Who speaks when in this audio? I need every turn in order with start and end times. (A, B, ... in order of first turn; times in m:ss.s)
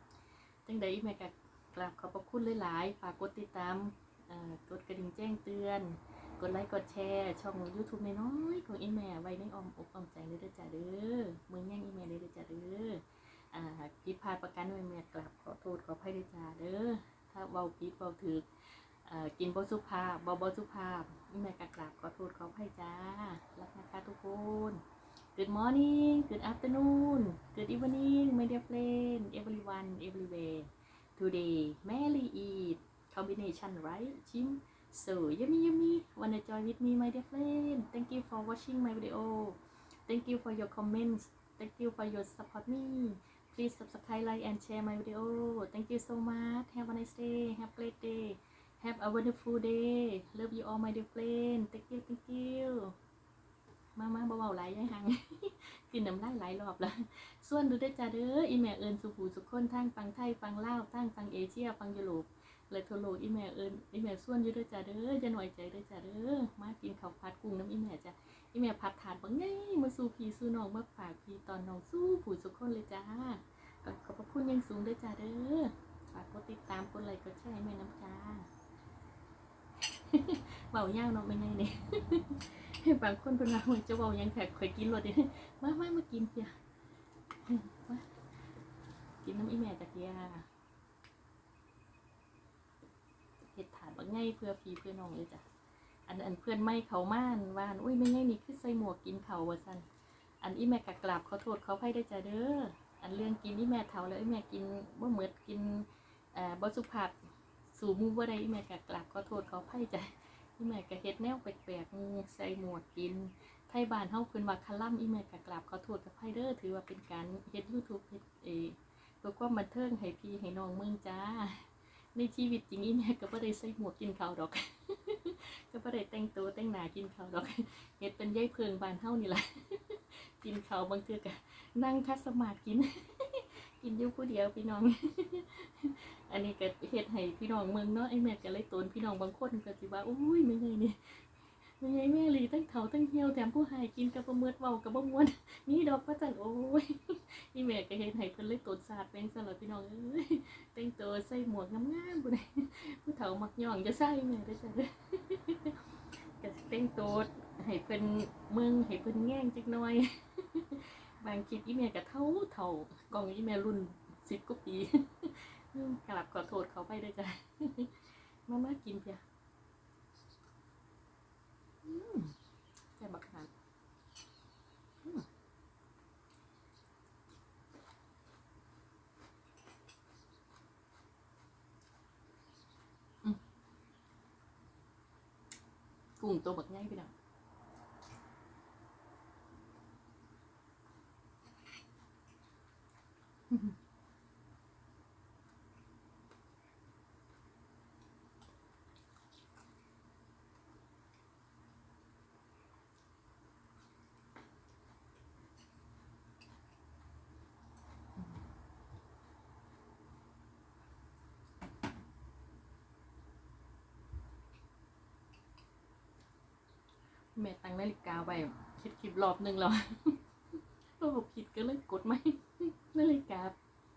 0:00.7-0:24.8 A
0:25.4-0:53.0 A
0:54.0-1:18.5 A
1:19.8-1:26.6 A
1:27.4-1:28.2 A
1:29.2-1:30.5 A
1:33.5-1:35.4 A
1:36.1-1:39.9 A
1:40.4-2:49.2 A
2:51.8-2:52.4 A
2:53.0-2:53.5 A
3:06.2-3:07.1 A
3:37.4-3:40.2 A
3:41.0-3:43.6 A